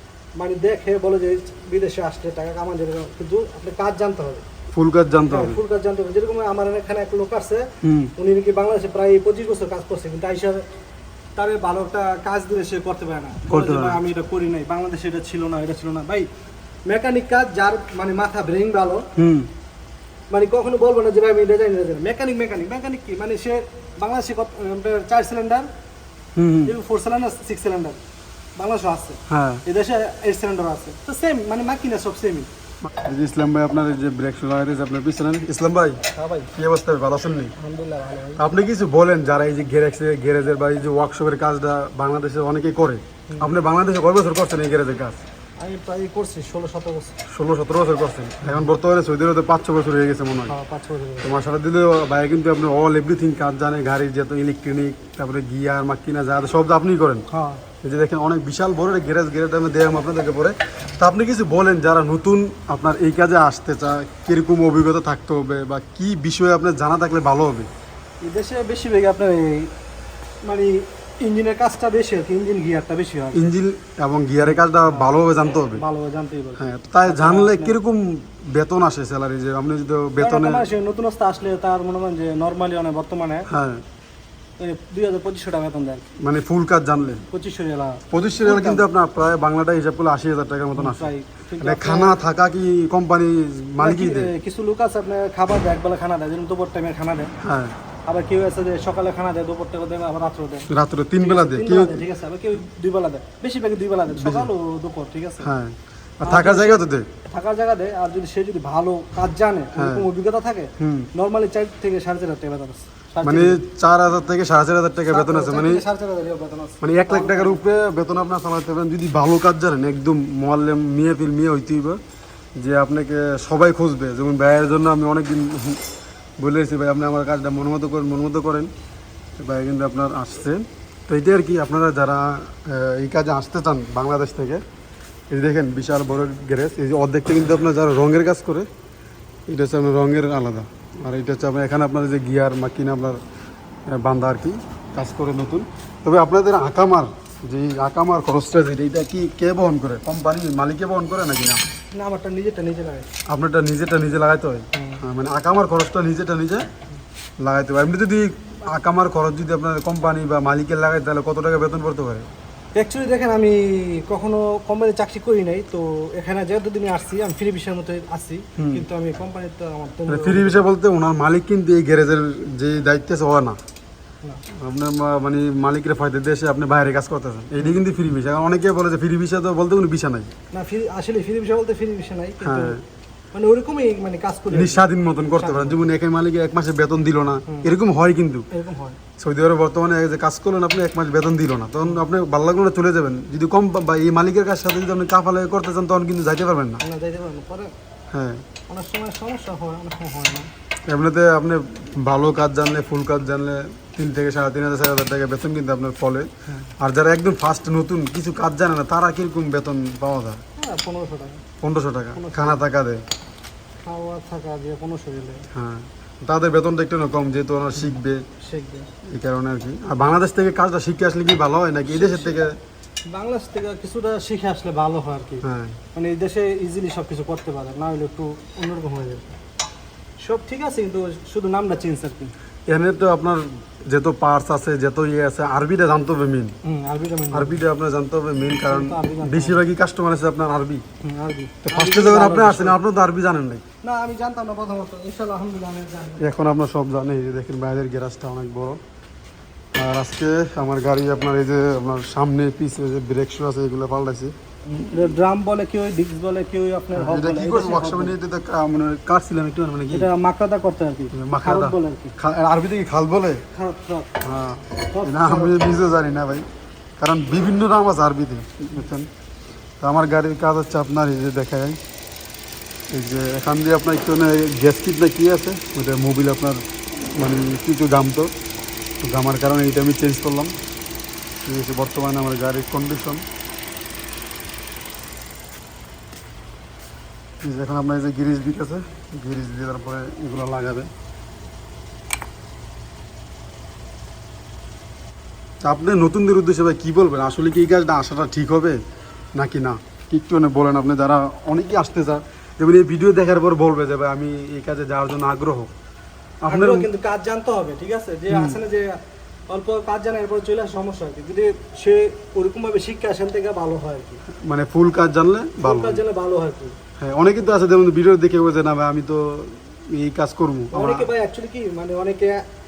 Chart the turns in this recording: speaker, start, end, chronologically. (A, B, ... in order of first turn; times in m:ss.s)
0:00.4-0:04.4 A
0:04.7-0:05.6 B
0:05.3-0:10.6 A
0:07.8-0:08.1 B
0:11.4-0:16.3 A
0:13.5-0:14.0 B
0:16.8-0:19.1 A
0:19.2-0:19.5 B
0:20.3-0:25.7 A
0:26.4-0:26.7 B
0:26.6-0:28.0 A
0:28.6-0:32.5 A
0:29.3-0:29.6 B
0:33.0-0:36.0 B
0:36.1-0:36.5 A
0:36.5-0:37.5 B
0:37.6-0:38.4 A
0:38.4-0:45.2 B
0:45.6-0:47.2 A
0:47.3-0:50.5 B
0:50.5-0:51.3 A
0:51.2-0:57.2 B
0:57.3-0:57.6 A
0:57.8-1:07.7 B
1:08.2-1:09.7 A
1:10.4-1:13.4 A
1:13.3-1:15.8 B
1:14.4-1:17.8 A
1:16.6-1:20.6 B
1:20.2-1:23.5 A
1:23.5-1:23.8 B
1:24.6-1:26.0 A
1:26.2-1:27.2 B
1:27.3-1:28.9 A
1:28.1-1:31.1 B
1:30.8-1:32.2 A
1:31.6-1:34.3 B
1:33.8-1:37.3 A
1:37.4-1:37.7 B
1:38.1-1:40.7 A
1:40.7-1:42.0 B
1:41.2-1:45.5 A
1:44.2-1:44.5 B
1:45.4-1:47.1 B
1:46.2-1:53.6 A
1:49.8-1:50.0 B
1:50.8-1:51.1 B
1:53.2-1:55.8 B
1:55.1-1:57.6 A
1:56.8-2:02.0 B
2:02.6-2:05.8 B
2:06.4-2:08.7 B
2:09.4-2:14.6 B
2:15.3-2:18.7 B
2:19.5-2:23.2 B
2:23.9-2:31.6 B
2:31.9-2:33.1 A
2:33.3-2:36.6 B
2:34.7-2:35.0 A
2:37.4-2:42.3 B
2:42.7-2:50.6 A
2:48.6-2:48.8 B
2:50.1-2:53.6 B
2:54.5-3:00.3 B
3:00.5-3:02.8 A
3:02.4-3:02.8 B
3:03.3-3:05.9 A
3:04.5-3:08.5 B
3:08.5-3:09.0 A
3:09.2-3:16.8 B
3:16.8-3:17.7 A
3:18.1-3:18.4 B
3:18.7-3:20.5 A
3:20.9-3:30.4 B
3:30.6-3:31.4 A
3:31.6-3:33.0 B
3:32.1-3:32.6 A
3:33.8-3:35.5 A
3:35.5-3:38.2 B
3:38.4-3:38.9 A
3:39.0-3:42.6 B
3:41.9-3:42.5 A
3:43.1-3:49.3 A
3:45.4-3:45.8 B
3:50.2-3:52.3 A
3:52.7-3:56.5 B
3:56.6-3:57.6 A
3:57.3-4:00.8 B
3:58.6-3:59.6 A
4:01.0-4:02.8 A
4:01.6-4:03.6 B
4:03.8-4:06.3 A
4:06.2-4:08.8 B
4:09.7-4:14.3 B
4:14.7-4:18.2 A
4:16.9-4:20.1 B
4:19.9-4:22.1 A
4:21.1-4:23.4 B
4:23.5-4:24.1 A
4:24.2-4:26.4 B
4:24.9-4:25.7 A
4:27.0-4:29.1 B
4:29.8-4:31.8 B
4:32.9-4:38.3 B
4:39.0-4:40.5 B
4:41.4-4:43.2 B
4:47.4-4:50.9 B
4:55.6-4:58.8 B
4:59.3-5:05.7 B
5:06.4-5:06.9 B
5:06.5-5:14.2 A
5:08.3-5:08.6 B
5:14.4-5:16.0 B
5:15.6-5:16.8 A
5:17.0-5:21.1 B
5:20.7-5:22.4 A